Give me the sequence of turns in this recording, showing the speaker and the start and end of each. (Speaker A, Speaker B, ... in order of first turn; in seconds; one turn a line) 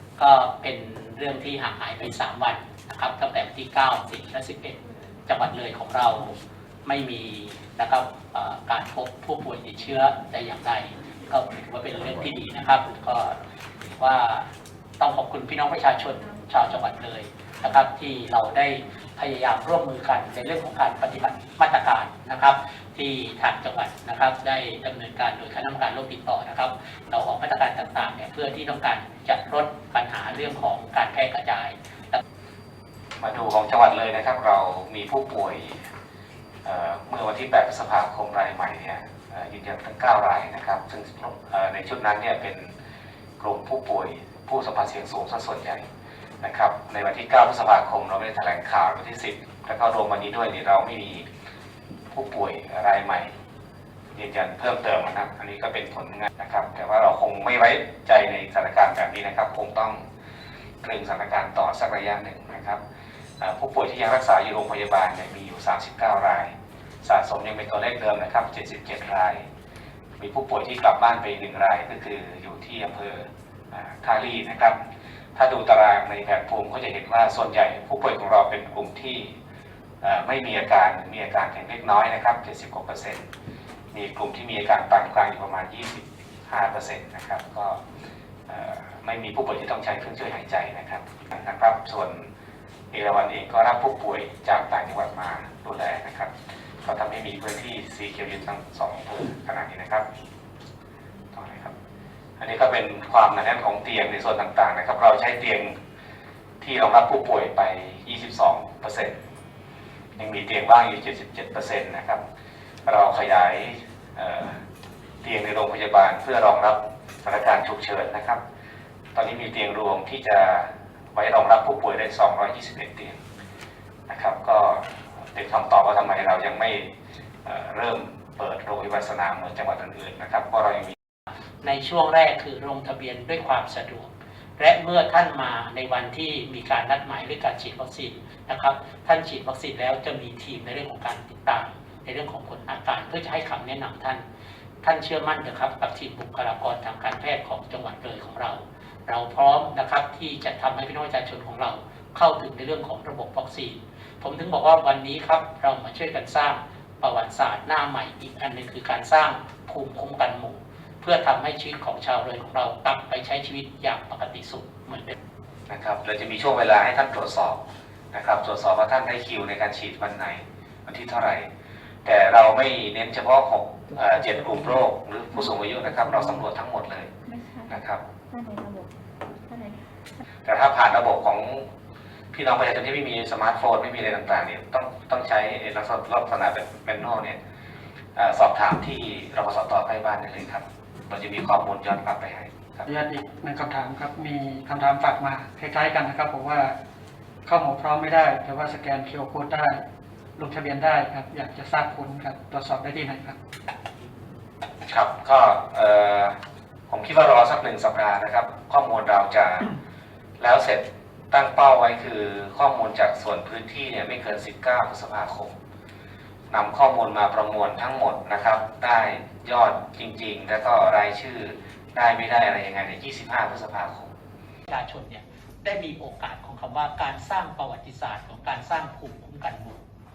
Speaker A: 0.2-13.4
Speaker A: 14.0-14.4
Speaker A: 15.0-32.2
Speaker B: 33.2-35.8
Speaker B: 36.6-42.7
Speaker B: 43.4-45.8
Speaker B: 46.4-51.2
Speaker B: 52.1-53.3
Speaker B: 54.1-60.0
Speaker B: 60.8-62.8
Speaker B: 63.4-69.5
Speaker B: 70.2-74.8
Speaker B: 75.3-79.3
Speaker B: 80.0-83.2
Speaker B: 83.9-87.8
Speaker B: 88.5-92.3
Speaker B: 92.9-96.3
Speaker B: 96.8-100.0
Speaker B: 101.3-101.7
Speaker B: 102.4-105.7
Speaker B: 106.6-109.1
Speaker B: 110.2-112.2
Speaker B: 112.8-114.6
Speaker B: 115.2-118.4
Speaker B: 119.1-123.2
Speaker B: 124.1-126.9
Speaker B: 127.4-130.9
Speaker A: 131.6-144.2
Speaker A: 144.8-165.1
Speaker B: 165.7-167.6
Speaker B: 168.1-171.5
Speaker B: 172.0-177.1
Speaker C: 177.3-178.9
Speaker B: 177.7-178.0
Speaker C: 179.5-179.8
Speaker B: 180.4-181.7
Speaker B: 182.3-187.4
Speaker B: 188.2-192.9
Speaker D: 192.9-196.8
Speaker D: 197.4-199.8
Speaker D: 200.4-203.4
Speaker B: 204.8-206.3
Speaker B: 206.9-209.7
Speaker B: 210.4-215.5
Speaker B: 216.5-224.1
Speaker A: 224.7-229.8